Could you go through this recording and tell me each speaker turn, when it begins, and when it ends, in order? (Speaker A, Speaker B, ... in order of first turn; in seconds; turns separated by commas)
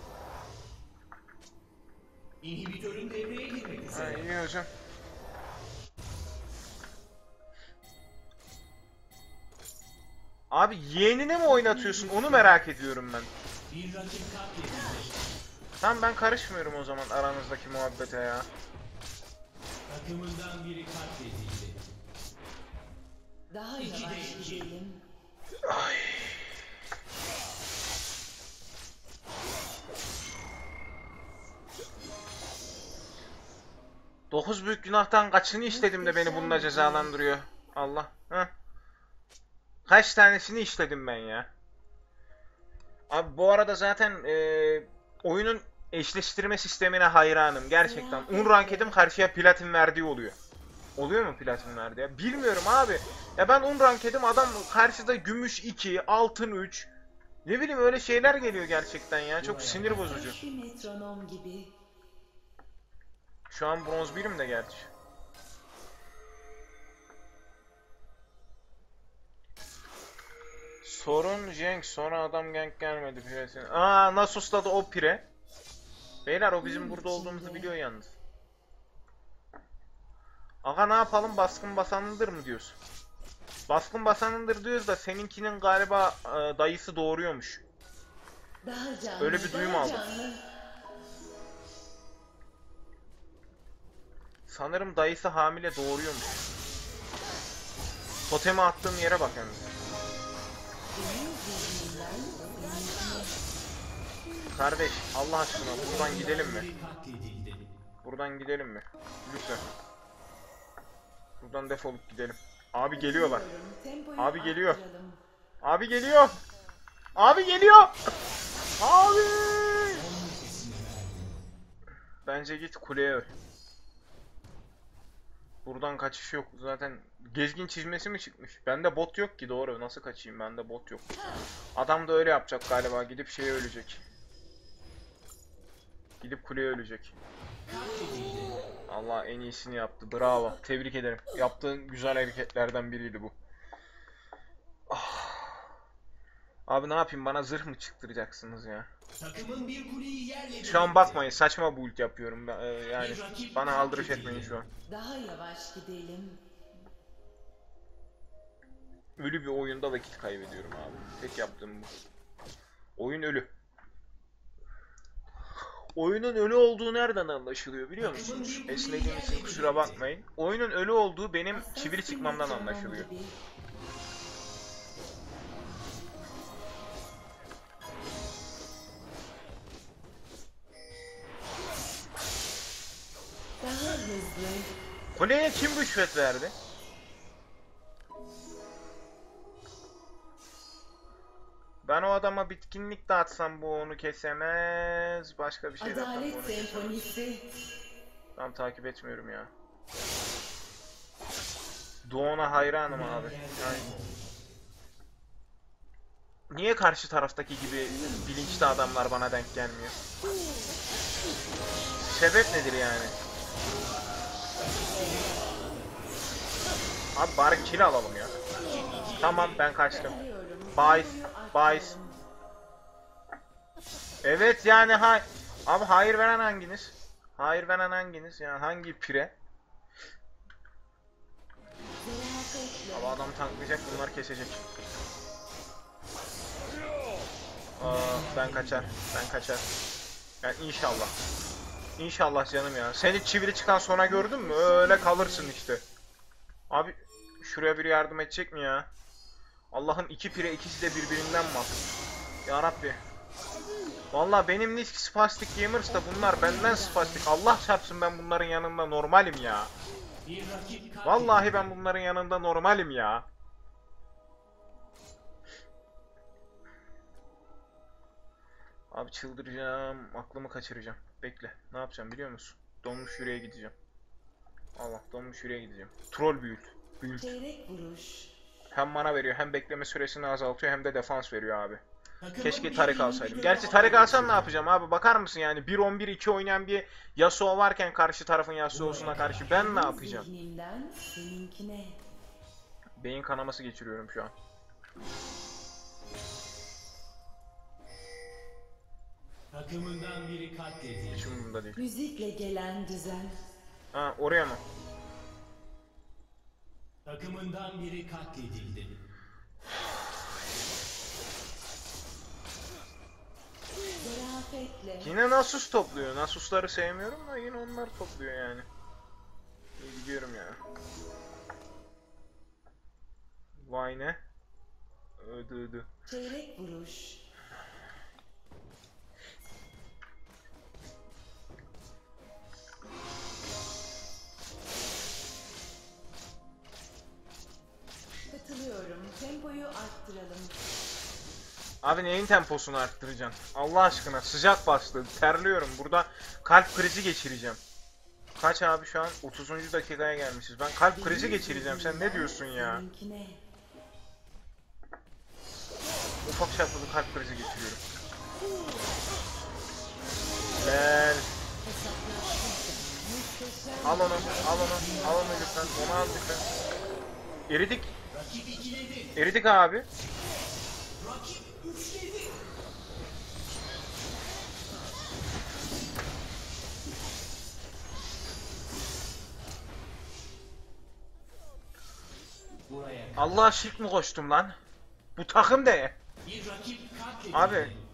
Speaker A: 2.4-4.3, Speaker B: 3.9-4.7, Speaker B: 10.5-13.3, Speaker C: 11.5-12.6, Speaker A: 13.7-15.2, Speaker B: 15.8-18.5, Speaker A: 19.9-21.8, Speaker C: 23.5-25.0, Speaker A: 23.8-24.7, Speaker B: 25.7-26.4, Speaker B: 34.3-38.5, Speaker C: 35.7-37.2, Speaker B: 39.9-41.5, Speaker B: 43.1-50.4, Speaker C: 47.8-49.0, Speaker B: 51.0-56.9, Speaker B: 57.5-60.4, Speaker A: 59.4-60.3, Speaker C: 59.9-61.7, Speaker B: 63.5-64.9, Speaker B: 70.8-75.3, Speaker B: 76.3-78.2, Speaker C: 76.6-77.7, Speaker B: 80.6-82.8, Speaker B: 83.7-87.6, Speaker C: 88.6-90.4, Speaker B: 89.2-90.0, Speaker B: 94.5-96.5, Speaker B: 98.3-99.7, Speaker C: 100.9-103.4, Speaker B: 104.5-106.7, Speaker A: 105.7-107.7, Speaker B: 108.0-109.6, Speaker B: 111.4-113.5, Speaker C: 112.9-115.2, Speaker B: 114.2-114.8, Speaker B: 115.6-116.4, Speaker B: 117.2-118.0, Speaker B: 118.8-120.0, Speaker A: 119.9-121.5, Speaker B: 122.2-123.3, Speaker B: 125.7-131.1, Speaker B: 131.8-134.0, Speaker B: 136.2-137.2, Speaker A: 137.7-138.7, Speaker B: 138.9-143.3, Speaker B: 144.9-145.7, Speaker B: 146.7-148.9, Speaker A: 149.2-151.2, Speaker B: 150.6-154.7, Speaker A: 153.0-154.6, Speaker C: 154.9-156.4, Speaker B: 159.2-161.9, Speaker B: 163.0-163.5, Speaker B: 166.0-173.1, Speaker A: 168.0-170.0, Speaker C: 171.5-173.4, Speaker C: 183.6-184.7, Speaker B: 185.2-186.5, Speaker B: 191.8-197.0, Speaker C: 195.8-197.4, Speaker B: 198.4-199.5, Speaker B: 202.1-203.9, Speaker A: 202.9-204.4, Speaker B: 206.5-210.0, Speaker C: 207.9-209.0, Speaker B: 212.0-213.2, Speaker A: 214.6-216.1, Speaker B: 217.2-218.3, Speaker A: 218.6-219.6, Speaker B: 219.2-220.2, Speaker C: 219.9-222.2, Speaker B: 220.7-221.9, Speaker B: 224.2-229.3, Speaker C: 232.0-233.2, Speaker B: 232.9-234.6, Speaker B: 237.8-239.7, Speaker A: 237.8-239.0, Speaker B: 240.4-241.1, Speaker B: 242.0-245.8, Speaker C: 244.0-245.6, Speaker B: 246.7-248.9, Speaker B: 249.7-251.8, Speaker B: 252.4-253.0, Speaker B: 254.1-259.7, Speaker C: 255.9-257.4, Speaker A: 260.2-261.8, Speaker B: 261.0-263.3, Speaker B: 268.9-273.7, Speaker B: 274.8-277.3, Speaker C: 277.2-278.3, Speaker B: 278.7-281.8, Speaker A: 282.2-284.6, Speaker B: 282.4-290.3, Speaker A: 288.7-289.8, Speaker C: 289.5-292.0, Speaker B: 293.0-294.3, Speaker A: 299.5-301.4, Speaker B: 301.1-301.8, Speaker C: 301.8-303.4, Speaker B: 303.9-304.6, Speaker A: 307.1-309.0, Speaker C: 314.0-315.1, Speaker B: 315.0-318.7, Speaker B: 319.8-320.6, Speaker B: 323.6-324.2, Speaker B: 325.2-325.9, Speaker C: 326.1-327.2, Speaker C: 338.3-340.6, Speaker B: 341.8-347.6, Speaker B: 348.4-352.9, Speaker C: 350.9-353.4, Speaker B: 356.2-357.8, Speaker B: 360.6-361.3, Speaker C: 361.6-365.8, Speaker B: 363.8-366.4, Speaker A: 364.5-366.2, Speaker B: 367.5-367.9, Speaker A: 368.1-369.2, Speaker B: 369.1-369.9, Speaker A: 370.9-372.4, Speaker A: 382.7-383.6, Speaker B: 383.2-384.6, Speaker B: 385.2-386.0, Speaker A: 386.2-387.8, Speaker B: 387.3-387.7